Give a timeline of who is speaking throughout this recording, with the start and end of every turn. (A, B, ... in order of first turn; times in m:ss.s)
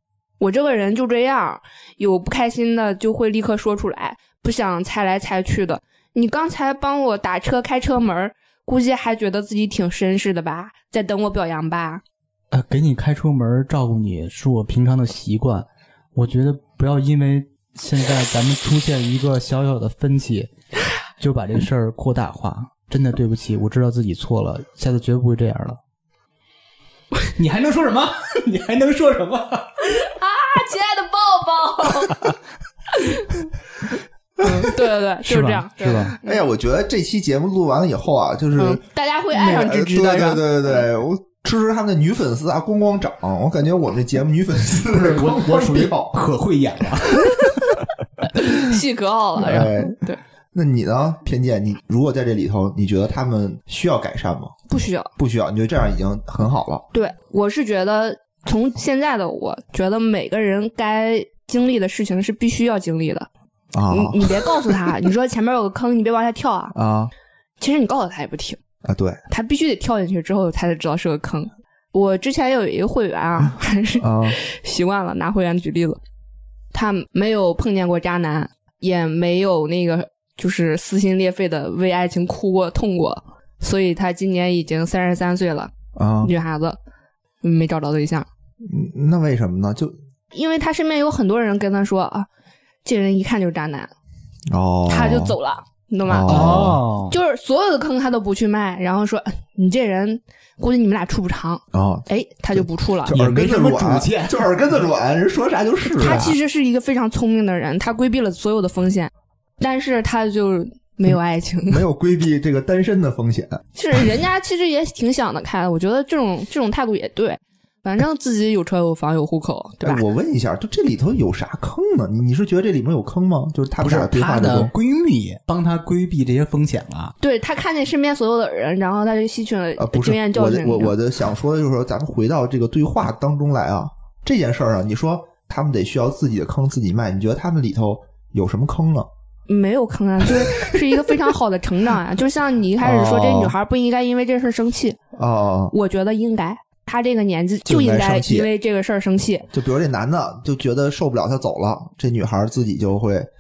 0:00.4-0:12.0 A
0:12.5-0:20.5 B
0:21.2-0:25.8 B
0:27.4-0:29.8 B
0:29.8-0:32.3 A
0:32.9-0:33.5 A
0:34.4-0:36.4 A
0:34.4-0:34.7 C
0:35.2-0:36.2 B
0:36.2-0:46.2 C
0:38.6-0:40.9 A
0:44.9-0:47.7 B
0:48.4-0:50.2 A
0:49.4-0:50.0 C
0:50.5-0:54.5 C
0:54.7-0:55.1 A
0:55.2-0:56.9 C
0:56.9-1:03.3 A
1:03.7-1:04.9 C
1:03.9-1:06.8 A
1:06.7-1:07.1 C
1:07.6-1:08.6 A
1:08.8-1:09.2 C
1:09.3-1:16.0 A
1:14.0-1:14.4 C
1:16.7-1:25.7 A
1:26.0-1:26.3 C
1:26.2-1:26.8 A
1:27.4-1:28.3 A
1:28.6-1:30.0 C
1:30.3-1:32.3 A
1:32.8-1:33.9 A
1:34.5-1:35.4 C
1:34.9-1:36.5 A
1:36.1-1:36.8 C
1:36.3-1:37.2 B
1:37.1-1:43.2 A
1:41.7-1:46.3 C
1:43.1-1:44.5 B
1:45.9-1:51.8 A
1:46.0-1:46.3 B
1:51.7-1:54.0 C
1:53.8-2:00.0 A
1:59.8-2:04.7 C
2:03.8-2:07.1 B
2:07.2-2:11.0 A
2:09.8-2:19.1 C
2:19.5-2:25.0 A
2:20.2-2:21.2 C
2:22.8-2:23.6 C
2:25.1-2:25.7 C
2:25.7-2:29.5 A
2:27.7-2:28.5 C
2:29.5-2:33.3 C